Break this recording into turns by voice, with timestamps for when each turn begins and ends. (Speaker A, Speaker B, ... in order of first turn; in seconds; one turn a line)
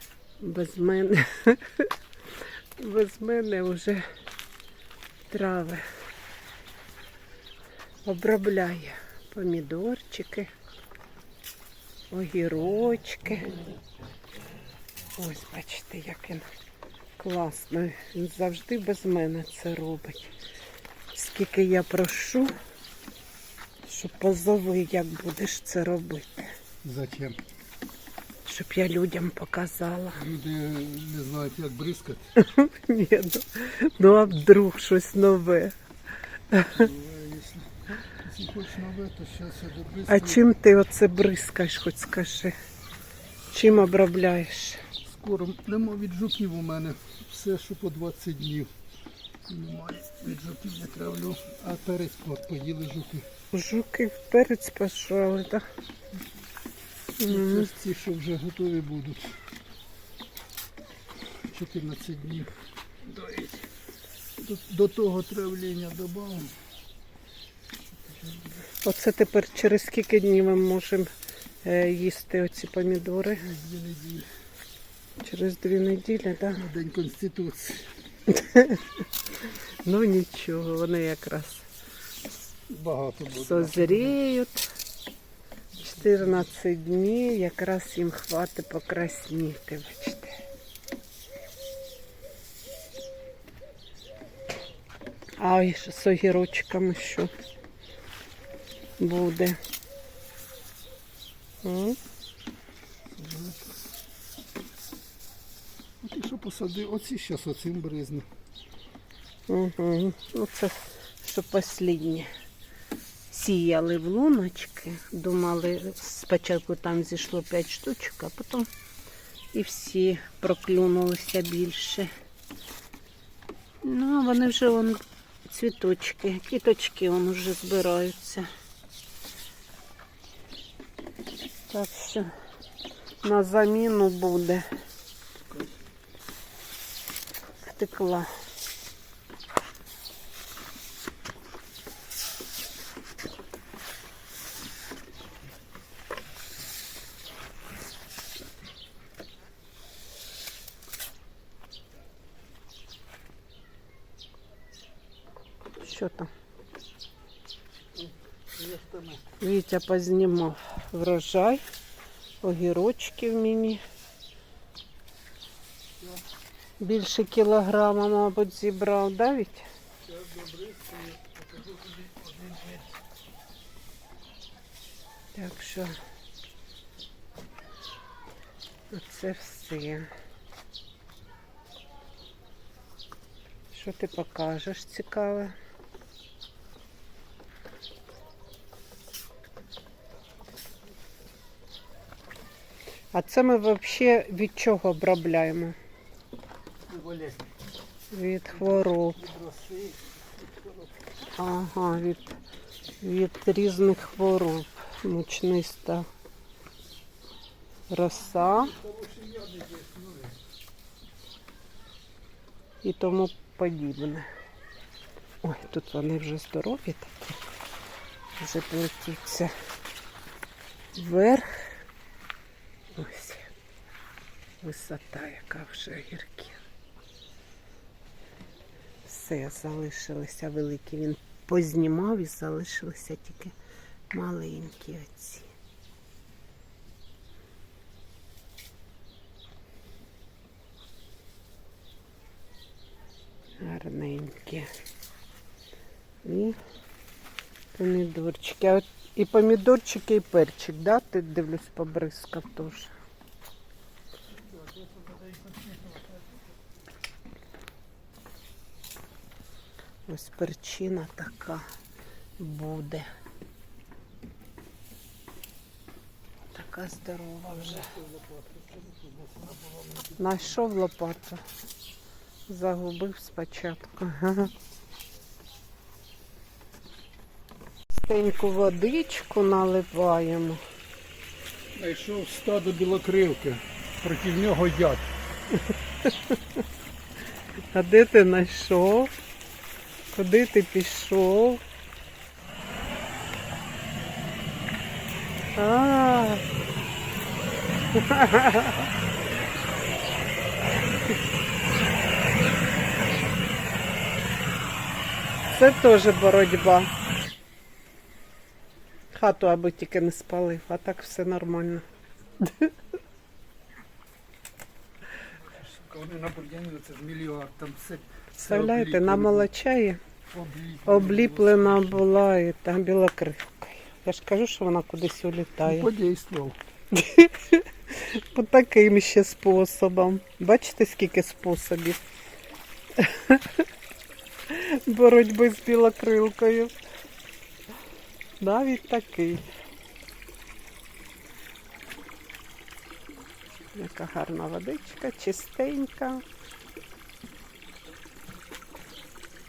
Speaker A: 0.4-1.9
Speaker A: 2.8-4.0
Speaker A: 5.3-5.8
Speaker A: 8.0-10.5
Speaker A: 12.1-13.5
Speaker A: 15.2-16.4
Speaker A: 17.2-20.3
Speaker A: 21.1-22.5
Speaker A: 23.8-26.5
Speaker B: 26.8-27.4
Speaker A: 28.4-30.2
Speaker B: 30.1-32.3
Speaker A: 32.4-35.7
Speaker A: 36.5-36.9
Speaker B: 36.6-40.4
Speaker A: 40.1-42.5
Speaker A: 43.5-44.8
Speaker B: 45.0-48.7
Speaker B: 49.5-53.3
Speaker A: 53.5-55.6
Speaker A: 57.2-57.7
Speaker B: 57.3-59.4
Speaker B: 61.5-63.7
Speaker B: 64.4-66.6
Speaker B: 68.0-68.6
Speaker A: 68.8-71.1
Speaker A: 71.6-73.4
Speaker B: 73.4-74.3
Speaker A: 75.2-76.6
Speaker B: 76.5-77.9
Speaker A: 78.3-78.8
Speaker A: 79.8-81.7
Speaker B: 82.7-84.2
Speaker A: 83.3-84.6
Speaker B: 85.8-86.4
Speaker A: 85.8-90.4
Speaker A: 95.4-97.3
Speaker A: 99.0-99.6
Speaker A: 101.6-102.0
Speaker B: 103.1-103.8
Speaker B: 106.0-108.3
Speaker A: 109.5-112.3
Speaker A: 113.3-118.7
Speaker A: 119.5-122.1
Speaker A: 123.8-128.5
Speaker A: 131.7-132.3
Speaker A: 133.2-134.7
Speaker A: 137.6-138.3
Speaker A: 155.8-156.3
Speaker B: 157.9-159.2
Speaker A: 159.4-161.6
Speaker A: 162.4-163.8
Speaker A: 166.8-169.7
Speaker B: 170.0-172.9
Speaker A: 175.3-175.9
Speaker A: 178.9-180.1
Speaker A: 183.7-185.5
Speaker A: 193.1-195.8
Speaker B: 196.9-197.5
Speaker A: 198.1-199.2
Speaker B: 198.5-201.1
Speaker A: 201.3-202.4
Speaker A: 203.0-206.1
Speaker A: 207.9-208.7
Speaker B: 208.3-210.4
Speaker A: 212.8-214.3
Speaker A: 215.4-217.4
Speaker A: 218.4-219.5
Speaker A: 220.9-221.8
Speaker A: 222.9-223.5
Speaker A: 224.6-226.6
Speaker A: 229.0-233.5
Speaker A: 234.1-235.5
Speaker A: 243.6-244.7
Speaker A: 246.2-246.6
Speaker A: 247.7-252.9
Speaker B: 254.3-256.4
Speaker A: 260.1-261.6
Speaker A: 262.4-263.1
Speaker A: 266.5-267.9
Speaker B: 267.5-270.6
Speaker A: 270.2-271.4
Speaker A: 272.5-274.5
Speaker A: 277.9-280.6
Speaker B: 281.7-285.1
Speaker A: 285.5-286.4
Speaker A: 287.7-289.1
Speaker A: 290.1-291.6
Speaker A: 295.6-296.4
Speaker A: 297.9-298.9
Speaker A: 305.5-306.9
Speaker A: 309.1-311.8
Speaker A: 312.4-312.7
Speaker B: 315.4-319.5
Speaker A: 318.4-320.0
Speaker B: 320.3-322.1
Speaker A: 320.9-325.9
Speaker B: 325.6-326.6
Speaker A: 326.9-332.1
Speaker A: 333.0-333.6
Speaker A: 334.5-336.7
Speaker A: 338.4-339.4
Speaker A: 343.7-346.2